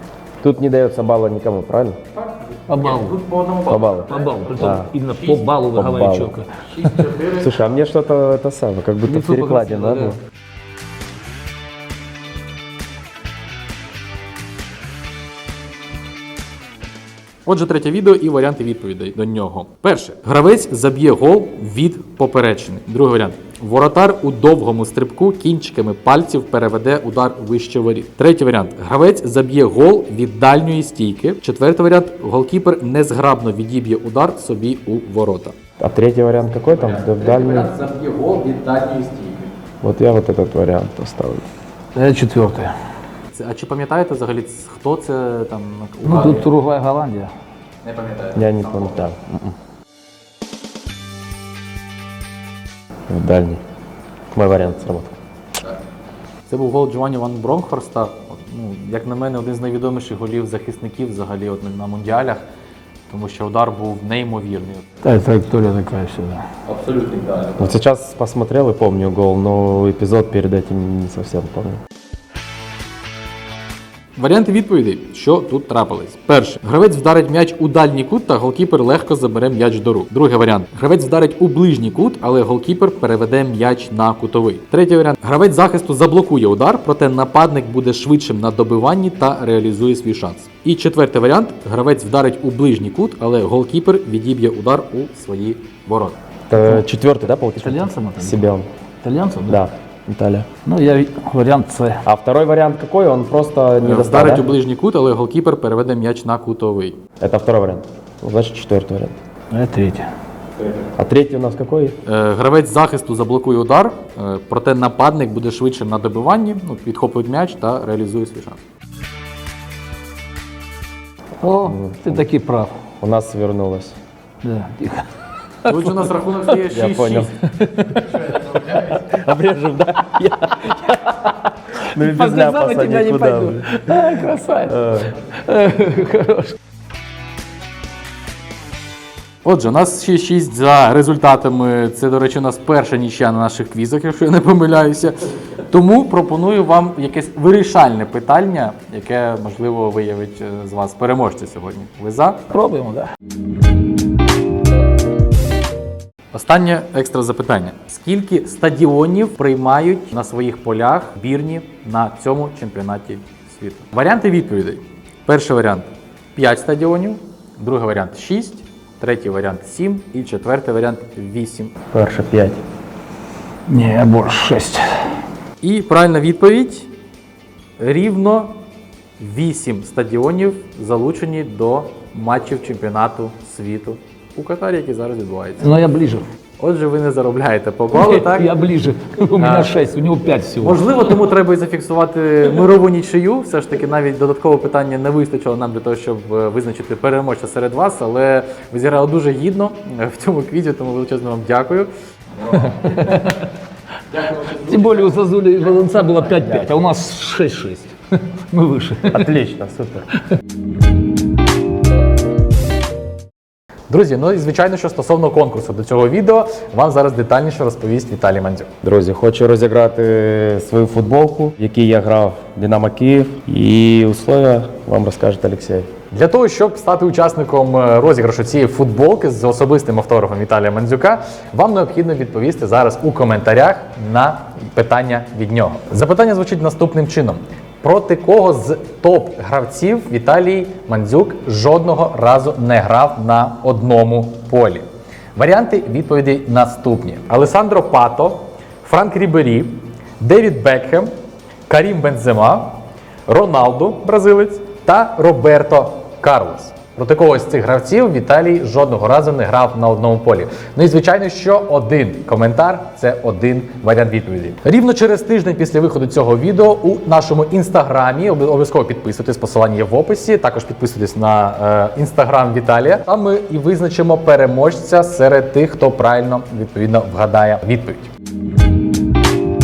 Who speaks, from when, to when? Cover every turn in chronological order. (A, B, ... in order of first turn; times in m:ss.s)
0:00.4-0:02.0 A
0:02.2-0:05.6 B
0:02.7-0:03.2 C
0:03.7-0:04.9 A
0:04.1-0:07.1 C
0:05.7-0:06.4 A
0:06.7-0:07.6 B
0:07.4-0:10.2 A
0:09.0-0:10.2 C
0:17.5-0:35.6 B
0:35.8-0:37.7 A
0:36.7-0:39.5 B
0:39.8-0:41.5 A
0:42.0-0:42.7 C
0:43.3-0:46.5 B
0:46.0-0:47.3 C
0:47.8-0:49.1 B
0:48.4-0:49.3 A
0:53.1-0:53.6 A
0:54.3-0:55.2 A
0:56.5-1:02.4 B
1:03.1-1:04.9 B
1:05.0-1:06.5 C
1:06.6-1:07.8 B
1:07.6-1:11.8 A
1:14.2-1:36.2 B
1:36.5-1:38.7 A
1:36.6-1:36.8 C
1:37.6-1:38.5 C
1:39.0-1:39.6 C
1:39.5-1:40.5 A
1:40.7-1:42.0 C
1:42.0-1:44.5 A
1:43.8-1:47.0 B
1:47.2-1:49.2 A
1:49.5-1:50.1 C
1:51.0-1:52.0 A
1:52.0-1:58.6 B
2:01.4-2:02.7 C
2:01.6-2:02.3 A
2:03.0-2:04.0 A
2:04.4-2:05.1 C
2:05.6-2:06.5 C
2:05.7-2:07.4 B
2:06.7-2:07.5 A
2:07.6-2:08.8 C
2:08.3-2:14.1 A
2:11.9-2:16.6 C
2:14.7-2:15.2 A
2:19.4-2:32.5 B
2:32.5-2:33.1 C
2:36.3-2:51.7 B
2:51.9-2:52.6 A
2:53.7-2:54.9 C
2:55.6-2:56.9 B
2:57.8-2:58.6 B
2:59.2-3:05.7 B
3:05.6-3:06.2 C
3:06.6-3:08.5 B
3:07.9-3:10.9 C
3:09.4-3:09.8 B
3:10.6-3:21.9 B
3:22.4-3:23.3 B
3:22.6-3:23.5 C
3:24.1-3:25.1 B
3:24.4-3:29.3 C
3:26.4-3:26.7 A
3:29.1-3:30.1 A
3:33.9-3:38.7 B
3:38.8-3:45.9 A
3:46.1-4:11.1 B
4:11.7-4:38.1 B